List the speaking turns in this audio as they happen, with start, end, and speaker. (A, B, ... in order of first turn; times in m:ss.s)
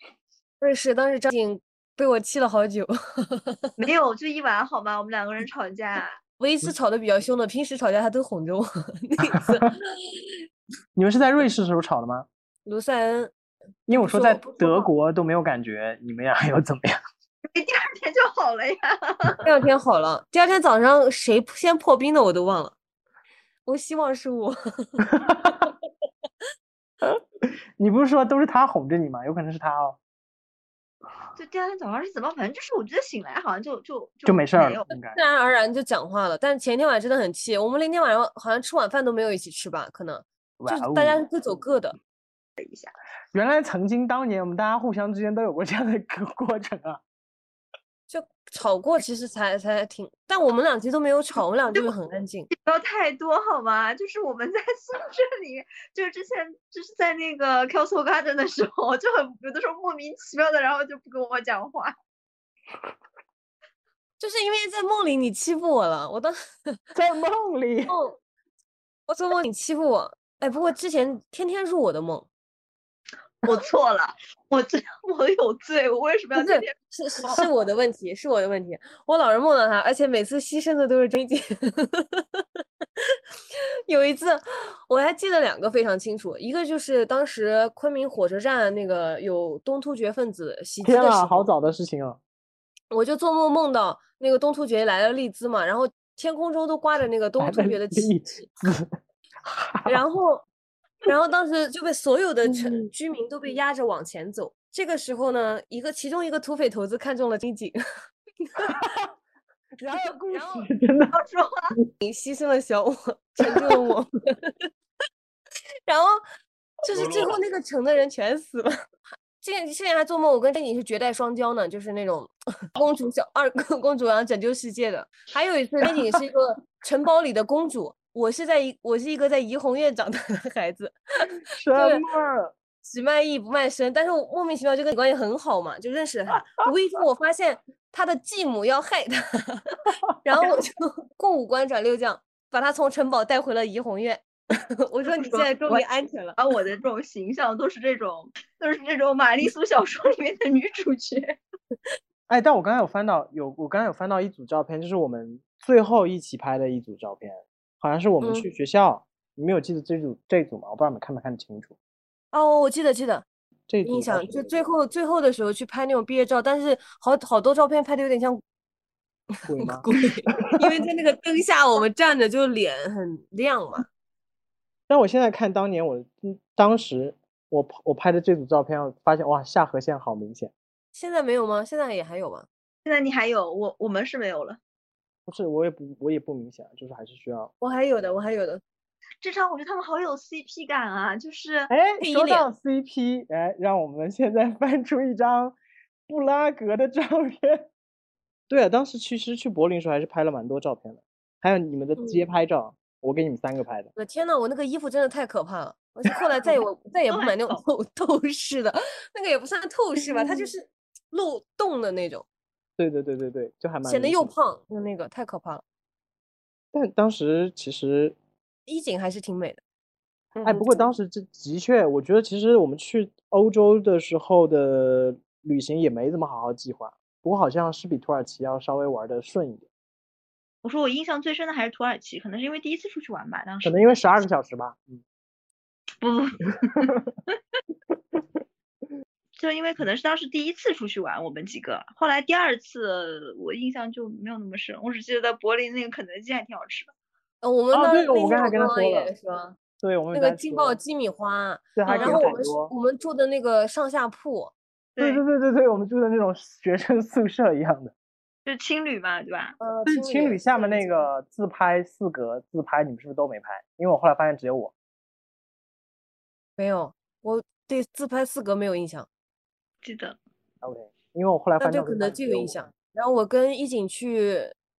0:00.6-0:03.7 A
0:03.8-0:06.2 B
0:06.4-0:09.8 A
0:11.0-0:12.3 C
0:12.6-0:13.3 A
0:13.9-0:17.0 C
0:14.0-0:14.9 A
0:17.5-0:19.5 B
0:19.4-0:22.8 A
0:23.6-0:25.0 A
0:27.8-0:30.0 C
0:31.4-0:34.8 B
0:34.2-0:35.2 C
0:35.1-0:42.0 A
0:40.6-0:41.2 C
0:42.6-0:42.9 B
0:43.3-0:47.0 C
0:48.1-0:52.5 A
0:52.6-1:02.0 B
1:04.2-1:06.8 A
1:06.9-1:08.0 C
1:07.9-1:08.2 A
1:09.1-1:12.3 A
1:13.4-1:17.4 B
1:16.4-1:22.4 A
1:23.9-1:31.5 A
1:30.8-1:32.2 C
1:32.9-1:38.1 A
1:37.4-1:38.9 C
1:39.4-1:40.0 C
1:39.9-1:40.4 A
1:41.1-1:47.8 A
1:42.5-1:42.9 C
1:49.8-1:51.2 C
1:49.9-1:50.7 A
1:51.1-1:51.7 B
1:52.0-1:54.6 A
1:53.4-1:53.9 C
1:55.9-1:56.2 A
1:56.8-1:58.7 A
1:56.9-1:57.3 C
1:59.4-2:11.0 A
2:11.5-2:12.6 C
2:11.8-2:12.0 A
2:12.8-2:26.4 A
2:25.2-2:25.8 B
2:26.4-2:31.4 B
2:32.3-2:41.8 C
2:42.3-2:43.2 A
2:43.7-2:44.4 C
2:43.8-2:48.4 A
2:49.4-2:49.9 C
2:49.6-2:53.9 A
2:54.9-3:00.5 C
3:00.9-3:02.5 A
3:02.8-3:04.6 B
3:05.3-3:07.5 C
3:07.6-3:08.6 A
3:09.2-3:11.7 B
3:11.7-3:15.6 C
3:12.0-3:12.5 A
3:16.1-3:17.7 C
3:18.5-3:23.9 C
3:22.0-3:22.2 A
3:24.0-3:32.3 A
3:27.1-3:27.6 B
3:32.8-3:34.3 C
3:33.8-3:35.6 A
3:36.7-3:38.2 C
3:38.7-3:39.6 A
3:40.4-3:40.9 A
3:40.4-3:49.7 C
3:50.6-3:54.2 B
3:53.6-3:55.0 C
3:56.0-3:57.0 B
3:59.4-4:06.9 B
4:07.4-4:09.6 A
4:07.7-4:09.1 C
4:09.8-4:10.8 C
4:10.1-4:14.5 A
4:11.8-4:12.7 C
4:11.9-4:12.3 B
4:15.0-4:15.2 B
4:15.0-4:17.9 C
4:18.4-4:19.6 B
4:19.6-4:21.1 A
4:19.8-4:24.7 C
4:26.6-4:29.1 A
4:29.8-4:30.2 B
4:30.6-4:32.6 C
4:31.6-4:34.5 A